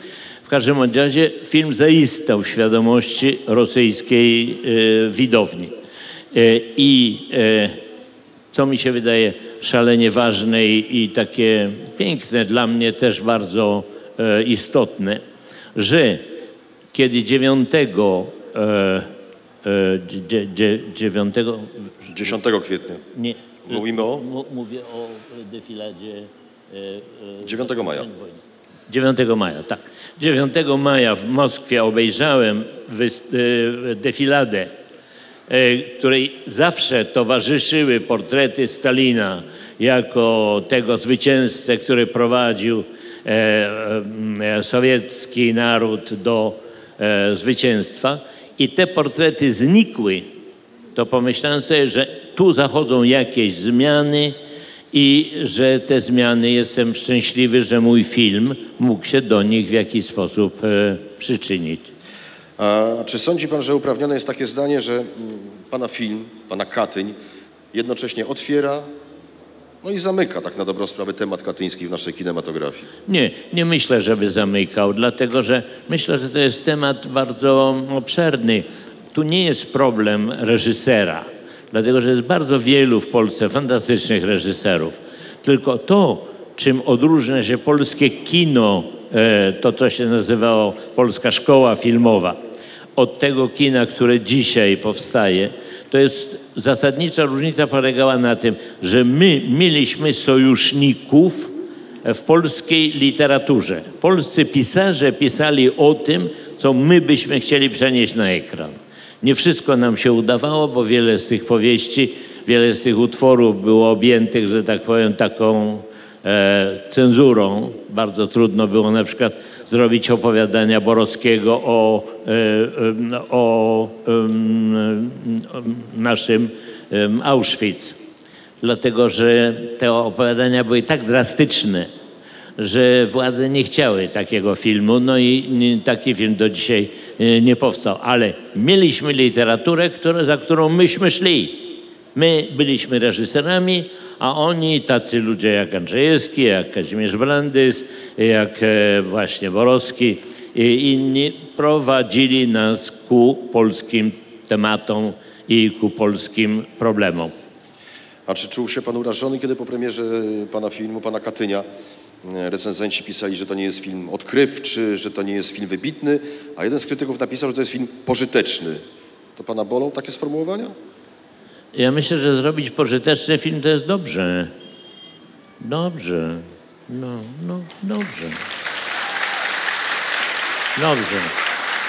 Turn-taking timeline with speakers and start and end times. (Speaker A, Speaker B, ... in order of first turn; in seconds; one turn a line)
Speaker A: 0.5-5.7
Speaker A: 6.3-7.8
Speaker A: 8.5-15.2
Speaker A: 15.8-16.2
Speaker A: 16.9-19.1
Speaker A: 19.6-22.3
Speaker B: 22.1-23.0
Speaker A: 23.1-34.7
Speaker B: 23.7-24.2
Speaker B: 27.4-28.1
Speaker A: 35.5-50.3
Speaker A: 50.9-54.3
Speaker A: 54.9-61.9
Speaker B: 62.6-67.2
Speaker B: 67.7-68.9
Speaker B: 69.8-72.9
Speaker A: 73.1-92.4
Speaker A: 93.0-101.5
Speaker A: 102.0-128.0
Speaker A: 128.6-131.9
Speaker A: 132.6-157.3
Speaker B: 158.3-161.7
Speaker B: 162.2-168.8
Speaker B: 169.3-170.7
Speaker A: 171.7-174.5
Speaker A: 175.6-178.4
Speaker A: 180.8-181.3